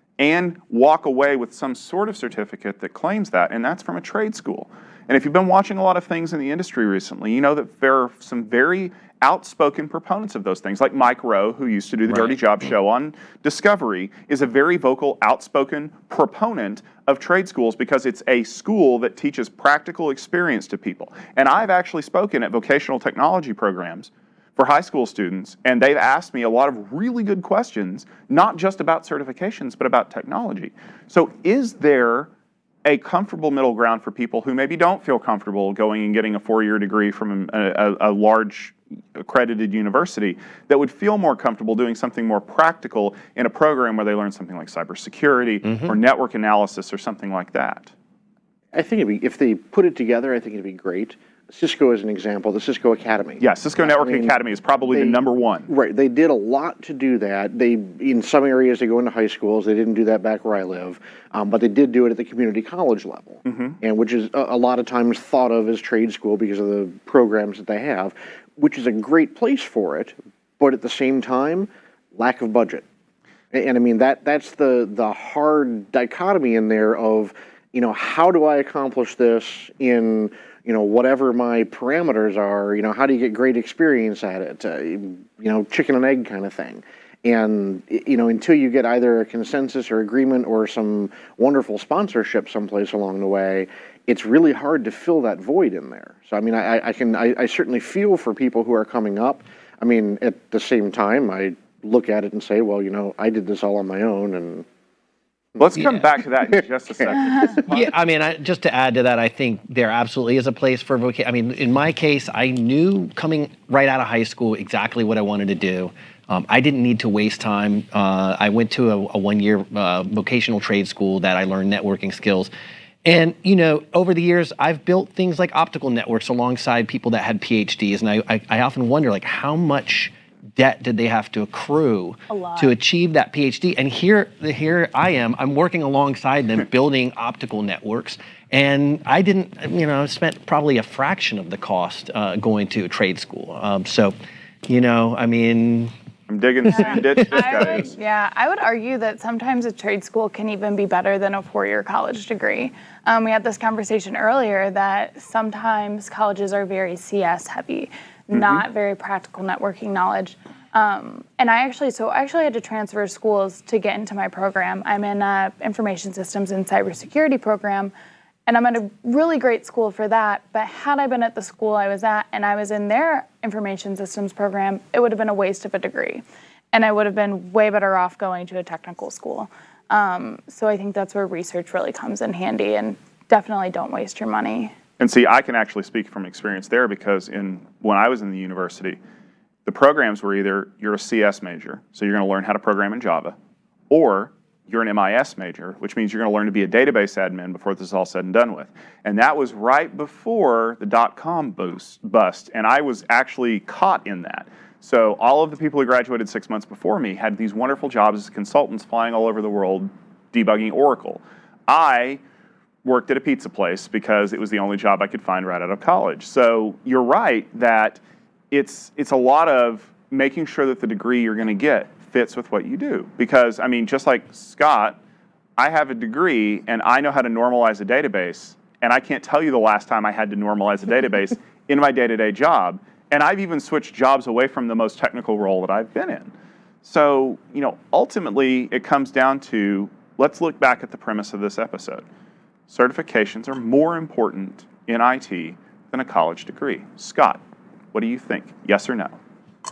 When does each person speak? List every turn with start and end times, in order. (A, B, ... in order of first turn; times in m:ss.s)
0:00.2-0:32.3 A
0:32.8-0:47.9 A
0:48.7-0:54.4 B
0:53.4-0:55.7 A
0:54.9-1:12.8 B
1:03.4-1:03.8 A
1:13.5-1:44.6 B
1:45.5-1:47.1 B
1:45.6-1:48.0 A
1:47.7-2:02.5 C
2:03.0-2:24.1 C
2:12.3-2:12.7 D
2:24.6-2:25.9 C
2:26.3-2:27.9 A
2:26.7-2:47.9 D
2:38.3-2:38.6 A
2:48.5-3:04.7 D
3:05.0-3:09.0 A
3:09.6-3:13.3 A
3:13.9-3:32.2 A
3:32.8-3:38.0 A
3:38.5-3:45.0 A
3:45.6-3:56.3 A
3:56.8-4:02.0 A
4:02.7-4:07.4 A
4:07.9-4:09.2 A